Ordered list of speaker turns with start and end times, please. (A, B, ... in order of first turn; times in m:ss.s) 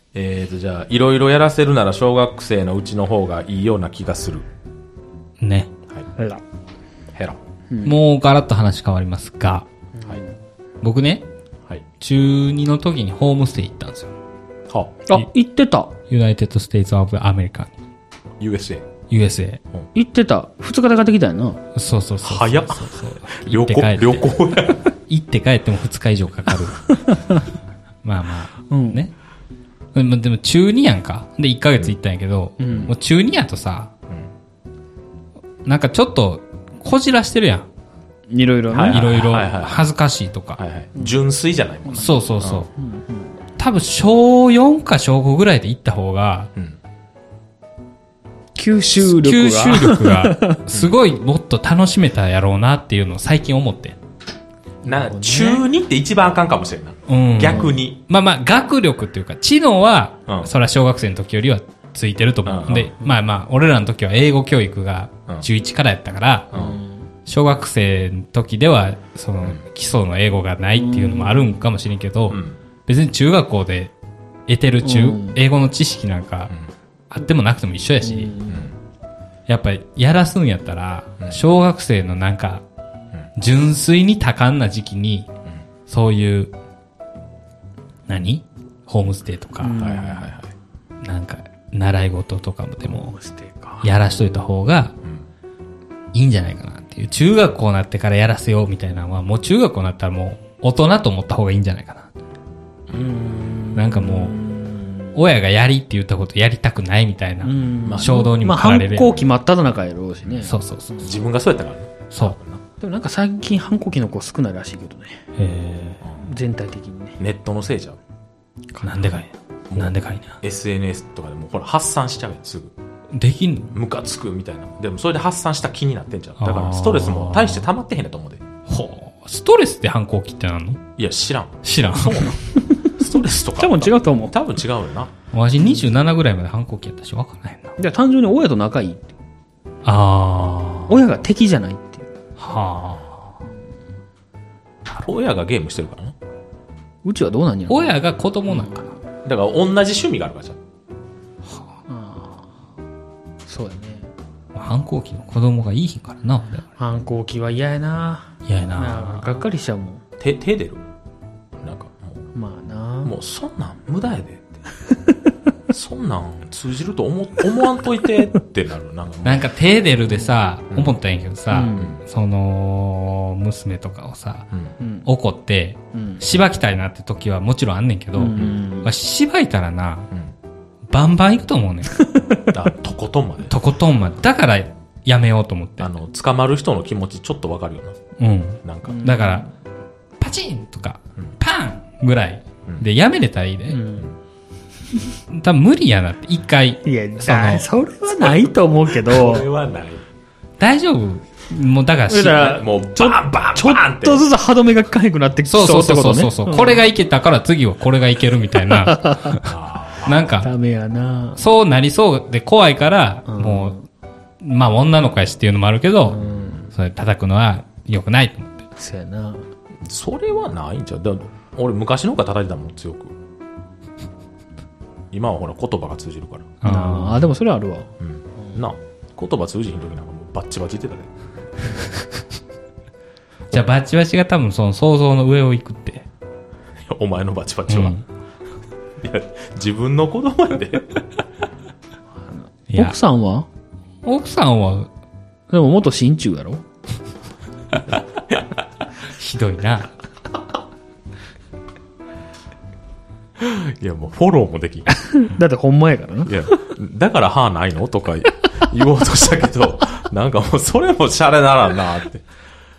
0:00.1-0:04.4 A
0:05.4-0:05.7 B
0:07.7-0:08.0 C
0:07.8-0:09.7 B
0:10.0-0:10.3 C
0:10.8-0:11.2 B
0:12.0-0:14.1 B
0:14.7-0:15.0 A
0:15.1-0:15.9 C
0:16.1-0:17.7 B
0:18.4-0:18.9 A
0:19.1-0:19.6 B
0:19.9-0:21.6 C
0:21.7-0:24.3 B
0:22.2-0:24.8 A
0:25.1-0:27.2 B
0:28.0-0:29.1 B
0:28.7-0:29.0 C
0:29.9-0:33.9 B
0:32.6-0:32.9 C
0:35.6-0:37.7 B
0:38.3-0:39.1 C
0:38.7-0:39.8 A
0:38.9-0:40.6 B
0:40.6-0:42.7 A
0:41.9-0:42.7 B
0:42.8-0:43.3 C
0:43.6-0:46.5 B
0:48.6-0:50.6 C
0:49.0-0:54.0 B
0:54.8-0:55.6 C
0:54.8-0:58.0 A
0:57.1-1:06.5 B
1:02.4-1:02.9 A
1:06.5-1:06.8 A
1:06.5-1:06.8 C
1:07.2-1:13.9 B
1:10.8-1:11.5 C
1:12.3-1:12.6 A
1:14.5-1:16.5 B
1:14.8-1:15.4 C
1:17.1-1:18.4 B
1:18.0-1:18.7 C
1:19.5-1:22.6 B
1:23.4-1:25.3 B
1:25.9-1:26.5 B
1:28.1-1:29.8 B
1:29.6-1:30.3 C
1:29.8-1:30.5 A
1:31.0-1:33.1 B
1:32.9-1:33.9 C
1:33.8-1:34.9 B
1:36.1-1:42.1 B
1:42.9-1:43.2 A
1:42.9-1:45.1 C
1:43.7-1:44.4 B
1:45.1-1:49.2 B
1:47.4-1:50.5 C
1:47.8-1:48.2 A
1:50.4-1:51.1 B
1:51.0-1:52.6 A
1:52.1-1:52.4 B
1:52.8-1:55.2 C
1:55.4-1:56.0 B
1:56.2-1:57.2 C
1:57.2-1:58.0 A
1:58.7-1:59.1 C
1:58.8-2:00.4 B
1:59.7-2:02.7 A
2:03.1-2:03.7 B
2:03.7-2:08.4 A
2:06.4-2:07.6 B
2:08.7-2:10.8 B
2:11.0-2:12.4 A
2:11.6-2:12.3 B
2:13.0-2:15.1 A
2:13.6-2:14.3 C
2:15.3-2:17.7 B
2:17.8-2:19.1 C
2:19.8-2:21.0 B
2:20.9-2:22.1 C
2:22.4-2:23.3 B
2:24.9-2:26.1 A
2:27.0-2:28.8 C
2:27.7-2:28.9 B
2:29.2-2:30.6 A
2:31.9-2:32.5 C
2:33.4-2:34.1 C
2:34.5-2:36.6 B
2:36.8-2:40.0 C
2:38.4-2:39.3 B
2:40.2-2:40.8 A
2:41.6-2:42.2 A
2:42.3-2:43.1 C
2:43.0-2:44.5 A
2:45.7-2:49.4 A
2:49.2-2:54.5 B
2:50.7-2:51.0 A
2:51.5-2:51.9 C
2:54.8-2:55.0 C
2:55.0-3:00.1 B
2:55.9-2:56.2 C
2:58.2-2:58.9 C
3:00.9-3:02.0 B
3:02.5-3:03.5 A
3:03.5-3:05.9 B
3:05.8-3:08.0 A
3:08.2-3:09.5 B
3:08.6-3:09.0 A
3:08.9-3:09.4 C
3:10.2-3:13.8 B
3:13.7-3:14.1 C
3:15.3-3:17.6 B
3:16.8-3:19.5 C
3:18.1-3:20.0 A
3:20.6-3:22.6 B
3:22.1-3:26.8 C
3:22.4-3:24.2 A
3:25.5-3:29.5 B
3:28.7-3:29.4 C
3:29.4-3:30.2 A
3:30.0-3:30.5 B
3:30.3-3:31.4 C
3:31.4-3:33.8 B
3:33.3-3:33.8 C
3:34.4-3:38.6 B
3:36.1-3:36.7 C
3:38.8-3:39.4 C
3:39.8-3:43.1 A
3:45.1-3:46.5 A
3:46.6-3:47.3 B
3:46.6-3:47.9 C
3:48.0-3:51.1 A
3:53.5-3:56.1 B
3:56.8-3:58.0 A
3:57.7-3:58.0 B
3:59.0-4:01.0 A
4:02.3-4:03.5 C
4:02.7-4:03.0 B
4:04.0-4:04.9 B
4:05.5-4:06.6 C
4:09.1-4:09.9 B
4:13.4-4:14.9 A
4:15.0-4:16.5 C
4:16.2-4:22.2 A